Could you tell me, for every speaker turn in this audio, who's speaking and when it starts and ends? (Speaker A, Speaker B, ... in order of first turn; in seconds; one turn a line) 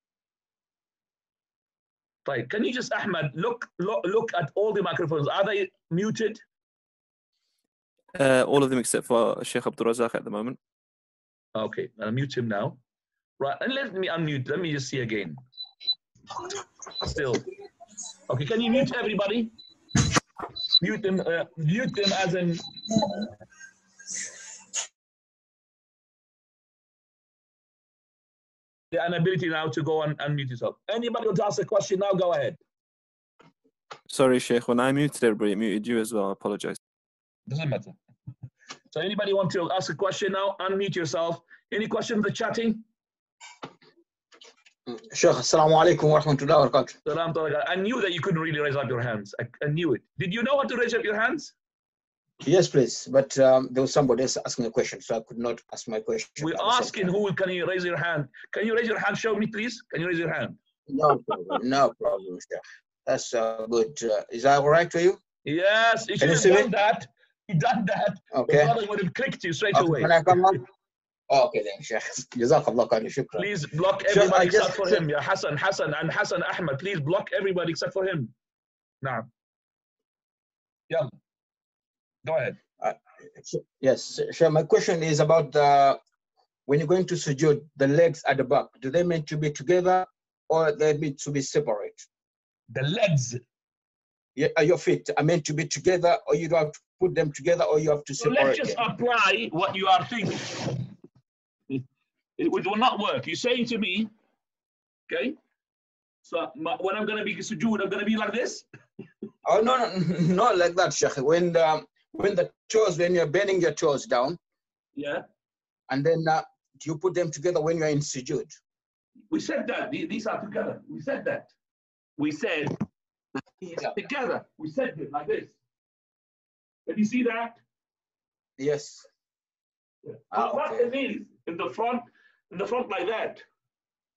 Speaker A: 2.2-6.4
Speaker B: 8.2-10.6
Speaker A: 11.5-12.8
Speaker A: 13.4-15.4
Speaker A: 17.0-17.4
Speaker A: 18.3-19.5
Speaker A: 20.8-22.6
Speaker A: 28.9-32.6
Speaker B: 34.1-36.8
Speaker A: 37.5-38.0
Speaker A: 38.9-42.8
Speaker C: 44.9-47.0
Speaker A: 47.0-51.5
Speaker C: 52.4-57.1
Speaker A: 56.4-60.6
Speaker C: 60.9-65.2
Speaker A: 65.4-70.3
Speaker C: 66.2-66.7
Speaker C: 68.3-68.7
Speaker C: 69.7-70.6
Speaker C: 71.3-73.5
Speaker A: 73.3-78.3
Speaker C: 74.1-75.0
Speaker A: 79.0-79.3
Speaker A: 82.2-82.6
Speaker C: 82.8-86.0
Speaker C: 86.7-92.1
Speaker A: 92.7-93.4
Speaker C: 94.3-98.8
Speaker A: 98.2-100.8
Speaker A: 102.4-104.1
Speaker A: 105.1-105.4
Speaker A: 106.2-108.6
Speaker C: 109.4-114.4
Speaker A: 115.0-115.2
Speaker C: 115.9-118.6
Speaker A: 119.3-121.5
Speaker A: 122.2-122.7
Speaker A: 123.6-125.5
Speaker A: 126.9-127.6
Speaker C: 128.6-129.1
Speaker A: 130.1-133.4
Speaker C: 130.3-130.9